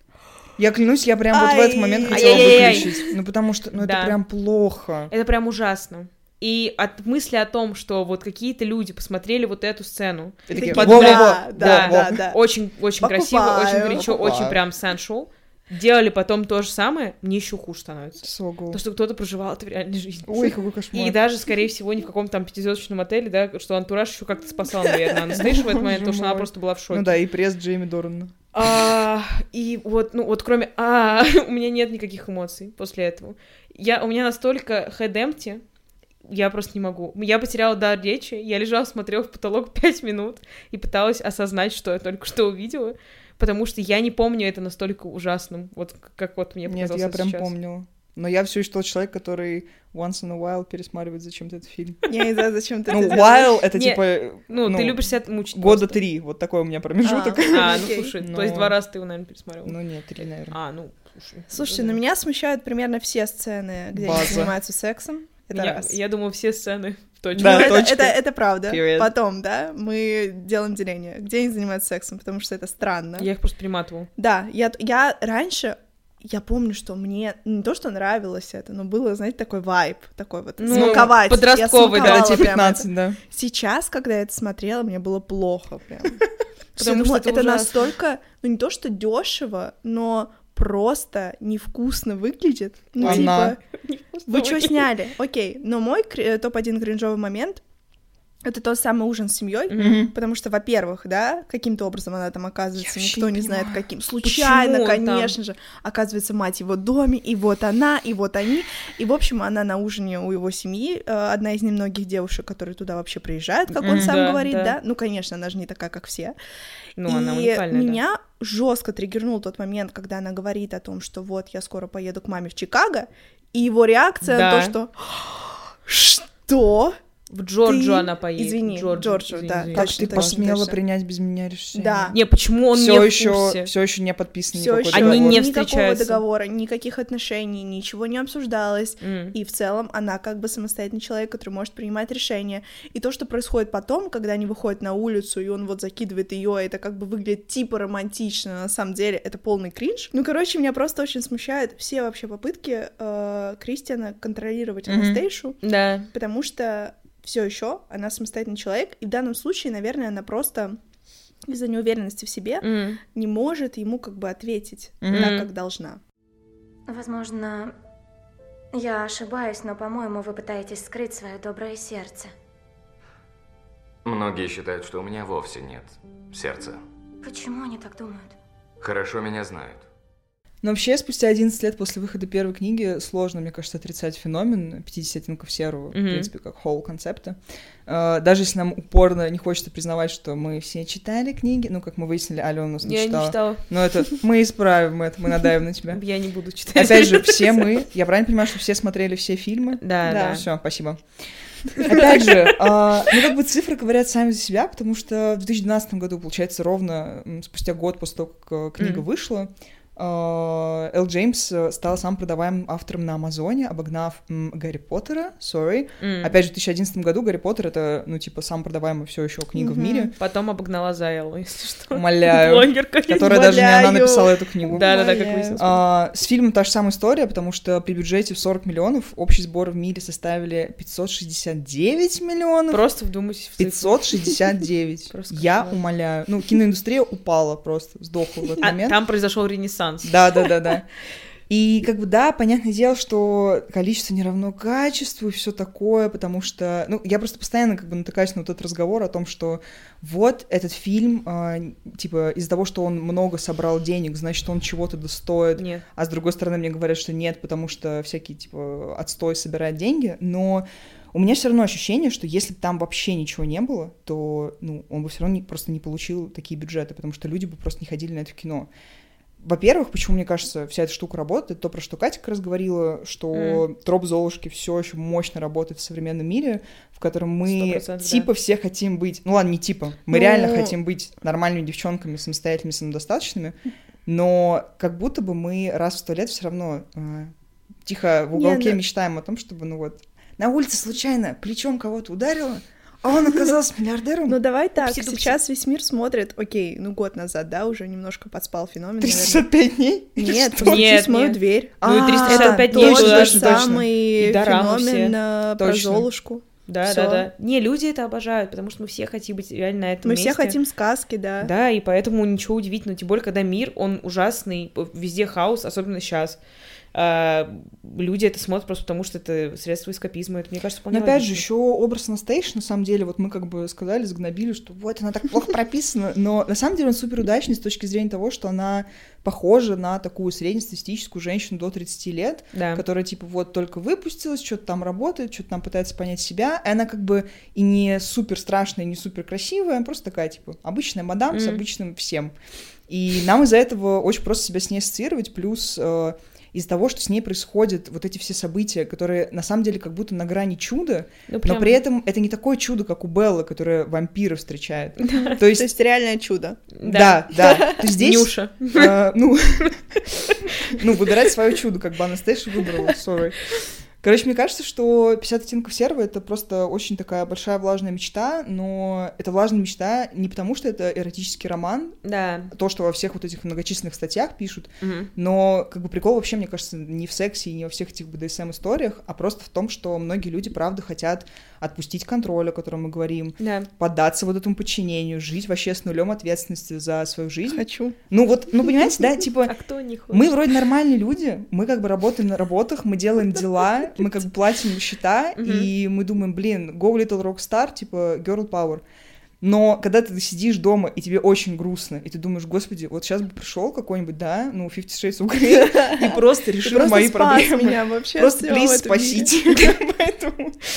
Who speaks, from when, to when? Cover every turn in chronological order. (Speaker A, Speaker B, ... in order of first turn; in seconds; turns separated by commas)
Speaker A: 0.6-5.1, Speaker B: 1.3-3.1, Speaker C: 2.1-2.9, Speaker C: 3.8-4.2, Speaker C: 5.1-27.2, Speaker A: 10.5-12.2, Speaker B: 10.5-12.4, Speaker B: 13.0-14.1, Speaker A: 13.9-14.6, Speaker A: 18.2-18.8, Speaker A: 20.2-21.2, Speaker A: 25.3-28.3, Speaker C: 28.5-35.6, Speaker C: 36.3-47.5, Speaker A: 46.7-52.0, Speaker B: 52.1-53.6, Speaker A: 52.9-58.7, Speaker C: 53.7-56.0, Speaker B: 57.0-58.1, Speaker C: 57.4-59.8, Speaker A: 59.6-60.5, Speaker C: 60.5-62.0, Speaker B: 61.5-66.0, Speaker A: 63.9-64.5, Speaker C: 65.5-67.9, Speaker A: 67.3-69.1, Speaker B: 67.4-73.3, Speaker C: 73.2-74.1, Speaker B: 74.2-86.2, Speaker C: 80.6-82.5, Speaker A: 80.7-81.2, Speaker A: 81.8-83.2, Speaker B: 86.8-93.6, Speaker C: 86.8-87.9, Speaker C: 93.0-94.9, Speaker A: 93.0-93.5, Speaker B: 94.3-97.6, Speaker B: 98.4-116.3, Speaker C: 99.7-100.0, Speaker A: 99.8-100.1, Speaker A: 102.8-103.8, Speaker C: 104.2-105.3, Speaker A: 113.8-114.2, Speaker C: 113.8-114.8, Speaker C: 117.0-118.0, Speaker B: 117.1-127.0, Speaker C: 124.2-124.8, Speaker C: 127.3-130.4, Speaker B: 127.7-130.8, Speaker A: 129.7-132.1, Speaker B: 131.7-132.2, Speaker C: 132.1-133.7, Speaker A: 132.7-135.4, Speaker B: 134.5-160.8, Speaker C: 134.9-136.2, Speaker C: 139.0-139.3, Speaker A: 154.9-155.2, Speaker C: 155.6-156.1, Speaker B: 161.5-166.0, Speaker C: 162.6-163.0, Speaker A: 165.0-165.4, Speaker C: 165.1-165.5, Speaker D: 166.9-167.7, Speaker D: 168.7-172.3, Speaker E: 174.0-176.8, Speaker D: 177.2-178.3, Speaker E: 178.8-179.8, Speaker A: 180.6-196.0, Speaker C: 185.9-186.3, Speaker C: 192.8-193.6, Speaker C: 195.9-197.7, Speaker A: 196.7-201.0, Speaker C: 199.8-200.5, Speaker C: 201.8-202.9, Speaker A: 201.8-220.1, Speaker C: 208.8-209.0, Speaker C: 216.0-216.3, Speaker B: 219.6-220.1, Speaker C: 220.1-223.8, Speaker A: 221.9-232.8, Speaker B: 223.2-224.3, Speaker C: 224.6-225.8, Speaker C: 232.7-234.4, Speaker A: 233.6-239.0, Speaker C: 235.1-235.8, Speaker C: 238.6-240.2, Speaker A: 240.0-240.9, Speaker A: 241.5-268.7, Speaker C: 255.6-255.8, Speaker A: 269.4-283.5, Speaker C: 273.3-273.6, Speaker C: 277.4-278.3, Speaker B: 280.1-280.7, Speaker A: 284.1-287.3, Speaker A: 287.8-294.4, Speaker B: 288.3-288.8, Speaker B: 294.3-299.4, Speaker C: 294.8-295.4, Speaker A: 299.0-300.9, Speaker B: 300.2-307.3, Speaker C: 300.6-305.2, Speaker A: 301.8-303.9, Speaker A: 305.6-306.1, Speaker C: 306.7-310.6, Speaker B: 310.0-311.5, Speaker C: 311.4-316.4, Speaker C: 316.9-321.4, Speaker A: 320.9-342.3, Speaker C: 332.5-332.8, Speaker C: 341.3-341.6, Speaker A: 342.9-355.7, Speaker C: 351.3-351.8, Speaker C: 355.0-355.4, Speaker B: 355.1-356.7, Speaker C: 356.8-359.0, Speaker A: 356.8-363.5, Speaker B: 357.4-357.8, Speaker C: 360.2-360.8, Speaker A: 364.0-372.0, Speaker C: 372.0-372.5, Speaker A: 372.5-389.5, Speaker C: 374.8-375.1, Speaker C: 383.4-383.7, Speaker B: 387.5-388.0, Speaker C: 389.4-390.4, Speaker A: 390.1-398.8, Speaker C: 395.4-395.7, Speaker A: 399.4-410.6, Speaker B: 405.5-409.3